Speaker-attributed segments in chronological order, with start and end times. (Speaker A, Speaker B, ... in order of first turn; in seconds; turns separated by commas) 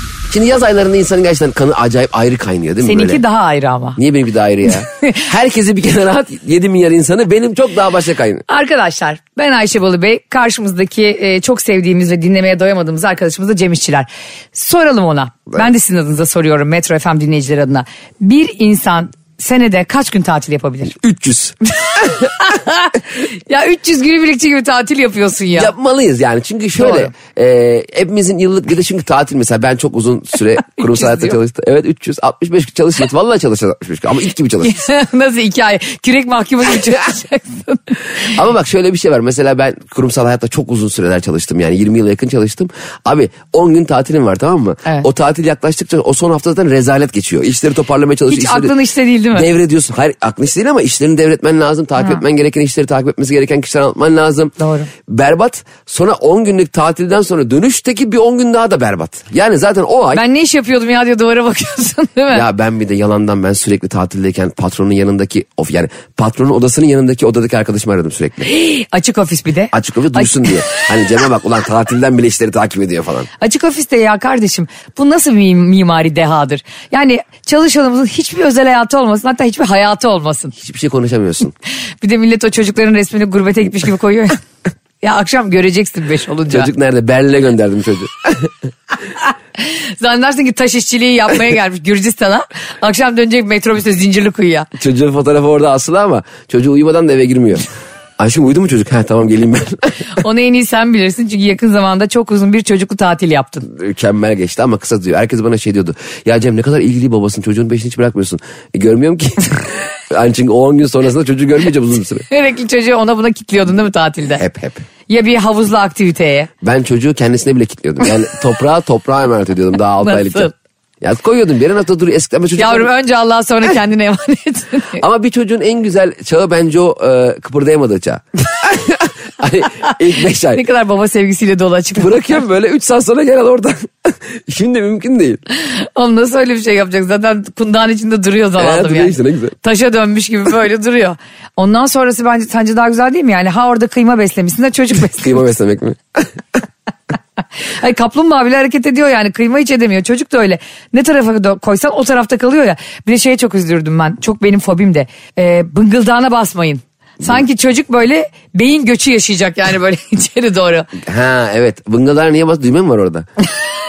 Speaker A: 0.3-3.2, Speaker B: 2.8-4.0, Speaker A: 4.0-8.4, Speaker B: 4.9-5.2, Speaker B: 8.5-21.0, Speaker A: 20.9-22.1, Speaker B: 21.9-25.7, Speaker A: 25.5-34.7, Speaker B: 26.8-27.1, Speaker B: 30.7-31.4, Speaker B: 34.6-38.3, Speaker A: 38.2-48.7, Speaker B: 48.3-49.5, Speaker A: 49.3-60.2, Speaker B: 54.6-54.9, Speaker B: 60.1-62.4, Speaker A: 62.3-68.5, Speaker B: 68.4-70.8, Speaker A: 69.7-73.3, Speaker B: 73.4-80.5, Speaker A: 80.6-81.5, Speaker B: 82.0-84.4, Speaker B: 85.0-86.7, Speaker A: 86.5-88.5, Speaker B: 89.6-94.7, Speaker A: 94.8-97.7, Speaker A: 98.2-100.0, Speaker B: 100.2-103.7, Speaker A: 103.7-112.2, Speaker B: 112.3-114.4, Speaker A: 114.3-114.8, Speaker B: 115.1-116.5, Speaker A: 116.6-120.5, Speaker B: 120.0-120.5, Speaker A: 121.0-122.9, Speaker B: 122.6-125.0, Speaker A: 125.0-130.6, Speaker B: 130.5-132.4, Speaker A: 132.0-135.4, Speaker B: 135.5-145.4, Speaker A: 138.6-139.5, Speaker A: 145.1-146.3, Speaker B: 147.8-160.9, Speaker A: 161.0-163.3